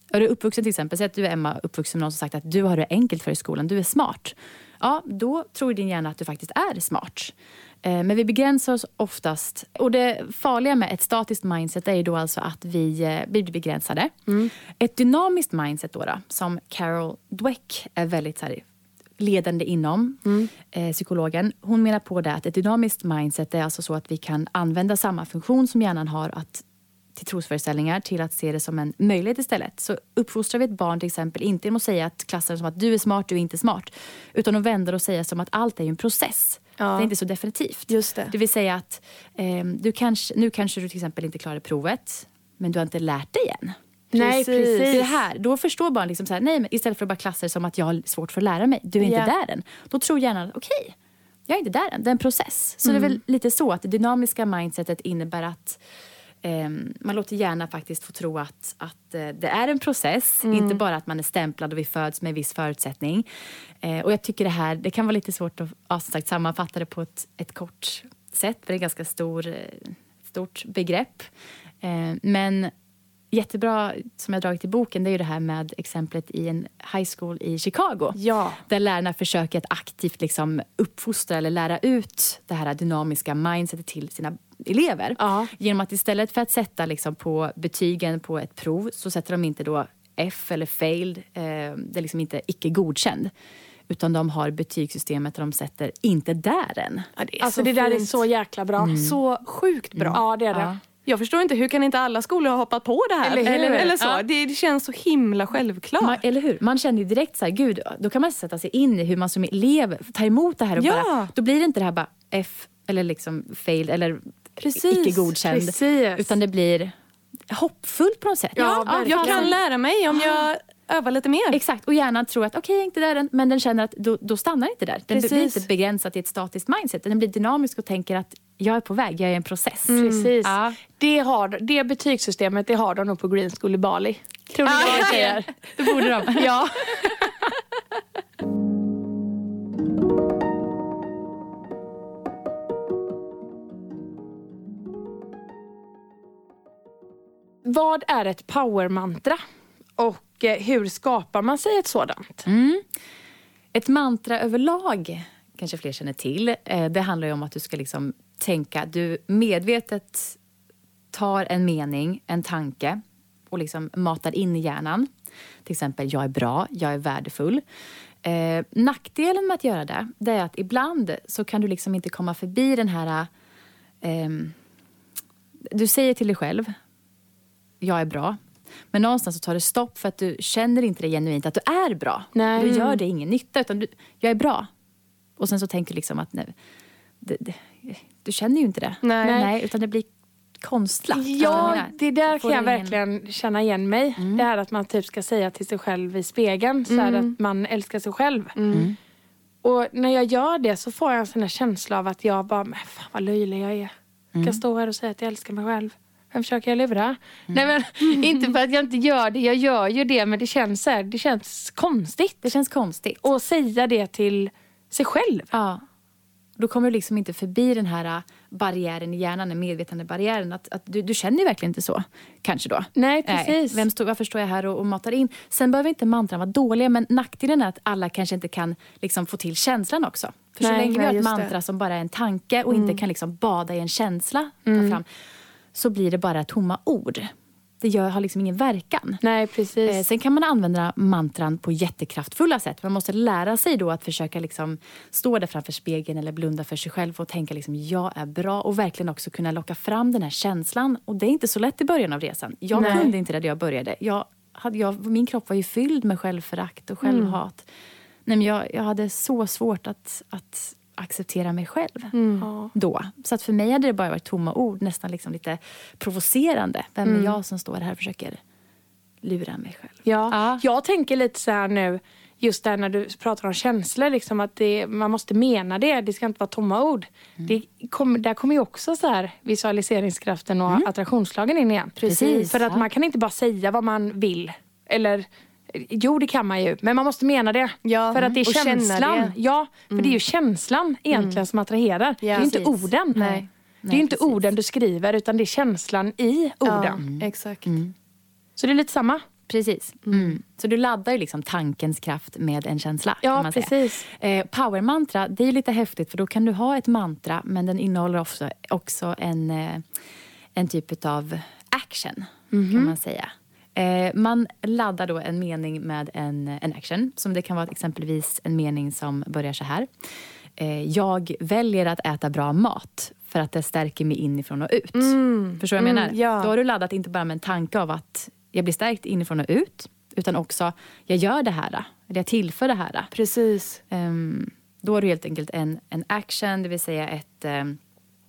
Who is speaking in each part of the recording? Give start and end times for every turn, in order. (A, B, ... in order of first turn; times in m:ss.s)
0:00.1-0:18.6 A
0:19.2-0:26.6 A
0:20.2-0:20.5 B
0:27.2-0:43.8 A
0:36.8-0:37.1 C
0:37.9-0:38.3 C
0:44.1-0:45.1 B
0:44.1-0:45.2 C
0:44.9-0:51.0 A
0:49.0-0:49.3 C
0:51.5-0:55.8 A
0:56.4-1:03.2 A
1:00.5-1:00.8 C
1:03.8-1:11.3 A
1:11.8-1:12.7 A
1:13.3-1:33.3 A
1:18.2-1:18.6 C
1:25.2-1:25.5 B
1:33.9-1:37.1 A
1:37.2-1:38.2 C
1:37.4-1:39.0 B
1:38.8-1:39.2 A
1:38.9-1:40.2 C
1:40.0-1:40.8 A
1:40.1-1:40.8 B
1:41.0-1:46.2 C
1:43.2-1:44.0 B
1:43.9-1:44.2 A
1:46.0-1:56.9 A
1:50.8-1:51.3 C
1:54.6-1:55.4 C
1:55.5-1:56.3 B
1:57.5-1:59.6 A
1:58.6-1:59.6 B
1:58.6-2:01.6 C
2:01.5-2:10.8 A
2:05.1-2:05.6 C
2:09.9-2:15.6 B
2:10.0-2:10.3 C
2:14.7-2:17.2 A
2:14.7-2:15.4 C
2:16.3-2:17.4 B
2:27.6-2:29.4 B
2:30.0-2:32.5 B
2:32.4-2:32.9 A
2:33.7-2:40.4 A
2:41.1-2:45.1 A
2:45.6-2:47.6 A
2:48.2-2:53.3 A
2:54.0-2:54.6 A
2:55.7-2:56.7 A
2:57.8-2:58.4 A
2:58.9-3:04.7 A
3:02.4-3:02.9 B
3:02.6-3:02.9 C
3:05.4-3:06.5 A
3:07.2-3:13.0 A
3:09.0-3:09.4 C
3:09.2-3:09.5 B
3:11.1-3:18.6 B
3:11.5-3:11.8 C
3:14.2-3:14.5 A
3:16.9-3:17.4 C
3:18.6-3:18.9 C
3:18.7-3:19.0 A
3:19.6-3:32.5 B
3:24.3-3:24.6 A
3:32.4-3:33.2 A
3:33.2-3:35.5 B
3:35.5-3:35.8 A
3:36.6-3:55.1 A
3:43.0-3:43.8 B
3:50.6-3:50.9 B
3:50.9-3:51.5 C
3:52.7-3:53.0 C
3:54.7-3:55.0 B
3:55.7-3:59.2 A
3:59.2-4:00.0 B
3:59.8-4:17.7 A
4:12.8-4:13.1 B
4:12.8-4:13.1 C
4:17.0-4:17.3 C
4:18.3-4:22.1 A
4:22.1-4:22.5 C
4:22.4-4:22.7 B
4:22.7-4:28.4 A
4:27.0-4:27.4 B
4:29.2-4:30.6 A
4:30.0-4:57.0 B
4:42.0-4:42.5 C
4:42.0-4:42.9 A
4:47.8-4:49.4 C
4:48.2-4:48.4 A
4:49.9-4:50.2 C
4:51.1-4:51.4 C
4:52.2-4:52.5 C
4:52.4-4:53.3 A
4:53.2-4:53.4 C
4:53.8-4:54.5 A
4:56.6-4:57.8 C
4:57.0-4:57.9 A
4:58.6-4:59.3 B
4:59.5-5:09.9 A
5:00.1-5:00.3 C
5:03.2-5:04.0 B
5:10.6-5:19.9 A
5:12.5-5:12.9 B
5:20.6-5:33.1 A
5:25.0-5:26.5 C
5:33.1-5:33.8 C
5:33.9-5:37.8 A